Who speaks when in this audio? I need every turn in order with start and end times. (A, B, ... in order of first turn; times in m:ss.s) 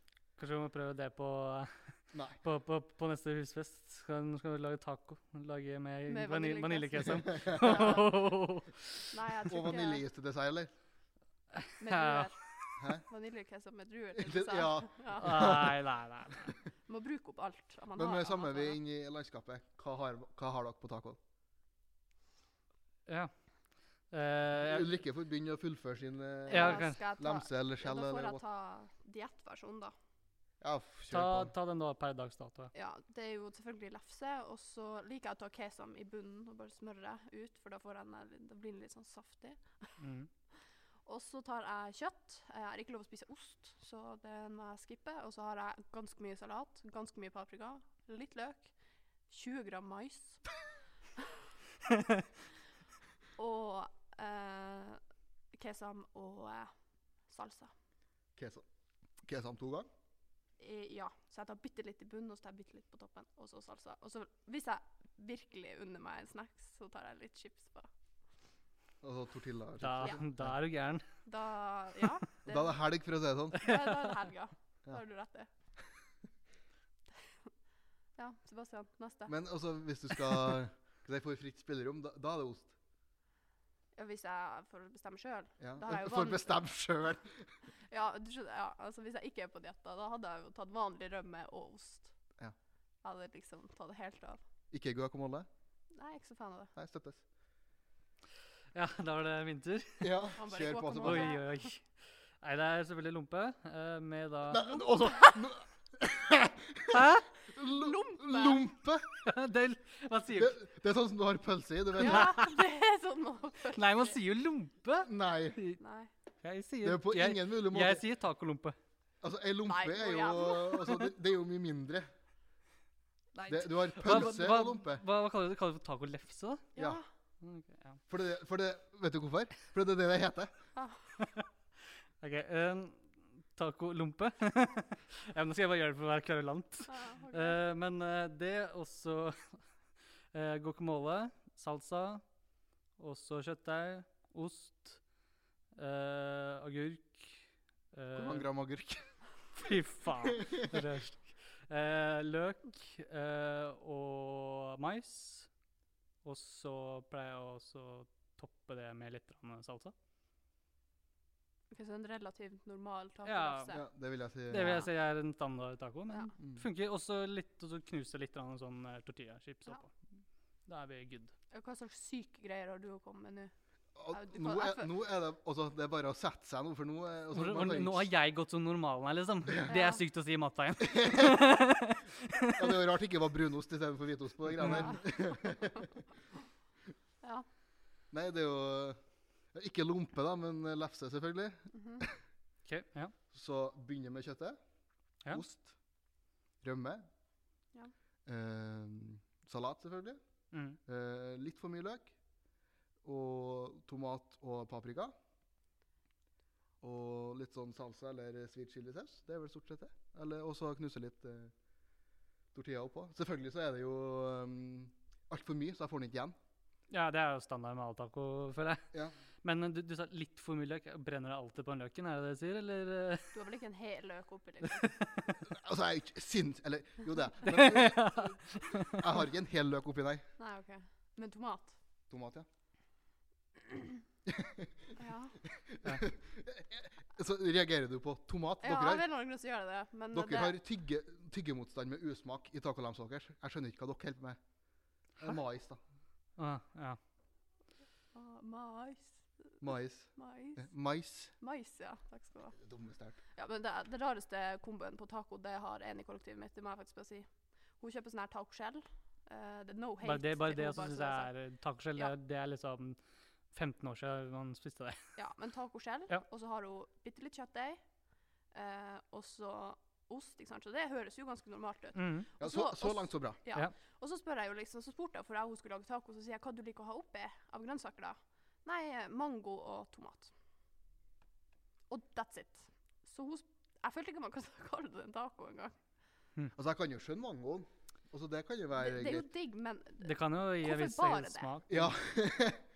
0:00.4-0:09.1 A
0:02.1-0:02.4 B
0:06.1-0:08.2 C
0:07.3-0:08.0 B
0:09.1-0:10.0 C
0:09.5-0:10.7 B
0:11.6-0:12.7 A
0:11.8-0:12.4 C
0:12.8-0:13.0 B
0:13.1-0:15.6 C
0:14.2-0:15.8 B
0:15.2-0:16.5 A
0:16.9-0:18.8 C
0:18.0-0:21.2 B
0:23.1-0:23.3 A
0:24.1-0:24.9 A
0:24.6-0:28.4 B
0:26.5-0:29.9 C
0:26.5-0:27.0 A
0:30.6-0:31.5 B
0:31.1-0:32.7 A
0:32.7-0:40.0 C
0:40.0-0:40.3 A
0:41.1-0:48.7 C
0:49.3-0:50.4 C
0:53.4-0:55.0 C
0:55.5-0:56.7 C
0:57.3-0:57.7 C
0:58.4-0:58.6 B
0:59.2-0:59.9 B
1:00.6-1:07.9 C
1:09.0-1:10.6 B
1:09.8-1:11.0 A
1:11.3-1:12.8 C
1:12.5-1:13.7 B
1:13.5-1:15.5 C
1:18.2-1:19.4 C
1:19.3-1:22.7 B
1:24.0-1:26.6 C
1:25.6-1:27.5 B
1:27.9-1:32.1 C
1:33.0-1:34.4 C
1:34.7-1:35.5 B
1:35.9-1:36.7 C
1:36.8-1:37.2 B
1:38.7-1:40.2 A
1:40.0-1:41.4 B
1:40.4-1:41.5 C
1:41.0-1:44.8 A
1:44.5-1:49.2 B
1:45.0-1:45.4 C
1:46.9-1:47.3 A
1:47.6-1:48.6 C
1:49.2-1:50.6 A
1:50.4-1:52.3 B
1:52.0-1:54.2 C
1:52.0-1:52.6 A
1:53.7-1:55.8 A
1:55.0-1:55.6 B
1:55.8-1:56.1 C
1:56.4-1:58.8 A
1:56.8-1:58.0 B
1:59.2-2:02.1 B
1:59.7-2:01.0 C
2:03.4-2:06.7 A
2:03.5-2:05.0 B
2:06.8-2:07.0 B
2:06.8-2:07.1 C
2:07.4-2:08.0 A
2:08.1-2:10.5 B
2:10.8-2:11.0 C
2:11.2-2:11.5 A
2:12.2-2:19.6 A
2:16.9-2:17.6 C
2:20.3-2:22.2 A
2:23.0-2:25.0 A
2:25.8-2:28.5 A
2:28.2-2:29.1 B
2:29.6-2:35.5 A
2:30.2-2:30.7 B
2:36.2-2:39.9 A
2:41.7-2:43.8 C
2:43.2-2:43.8 A
2:43.7-2:44.9 B
2:44.5-2:49.9 A
2:44.6-2:44.9 C
2:46.4-2:46.6 B
2:50.7-2:51.3 A
2:51.5-2:53.5 C
2:54.0-2:58.1 B
2:54.1-2:54.9 C
2:57.3-3:02.8 A
2:59.7-3:00.0 C
3:00.8-3:01.4 B
3:02.6-3:06.0 B
3:04.6-3:05.0 A
3:04.7-3:05.0 C
3:08.1-3:09.0 B
3:09.5-3:12.1 B
3:11.7-3:12.0 C
3:12.6-3:13.1 A
3:13.3-3:14.6 B
3:15.3-3:15.8 B
3:16.6-3:17.0 B
3:18.3-3:20.2 B
3:20.5-3:20.8 A
3:20.9-3:22.1 B
3:23.0-3:25.1 B
3:26.8-3:31.5 B
3:32.5-3:36.4 B
3:36.9-3:38.9 A
3:39.4-3:43.3 A
3:43.3-3:44.9 C
3:45.4-3:50.2 B
3:47.4-3:49.1 A
3:50.4-3:51.8 C
3:52.1-3:52.5 B
3:54.3-3:54.9 B
3:55.0-3:55.4 C
3:55.5-3:59.1 B
3:58.6-4:00.6 C
4:00.1-4:04.4 B
4:05.2-4:05.8 B
4:06.4-4:07.0 A
4:08.1-4:09.6 C
4:09.6-4:11.3 B
4:10.2-4:10.7 C
4:11.4-4:12.6 C
4:12.6-4:13.2 B
4:13.4-4:17.3 C
4:17.8-4:21.3 C
4:20.0-4:23.0 A
4:23.5-4:25.1 A
4:25.2-4:27.8 C
4:28.5-4:40.3 C
4:32.0-4:32.3 A
4:32.4-4:33.4 B
4:41.9-4:45.8 C
4:46.6-4:49.3 B
4:48.8-4:51.5 C
4:50.0-4:51.9 A
4:51.7-4:52.6 B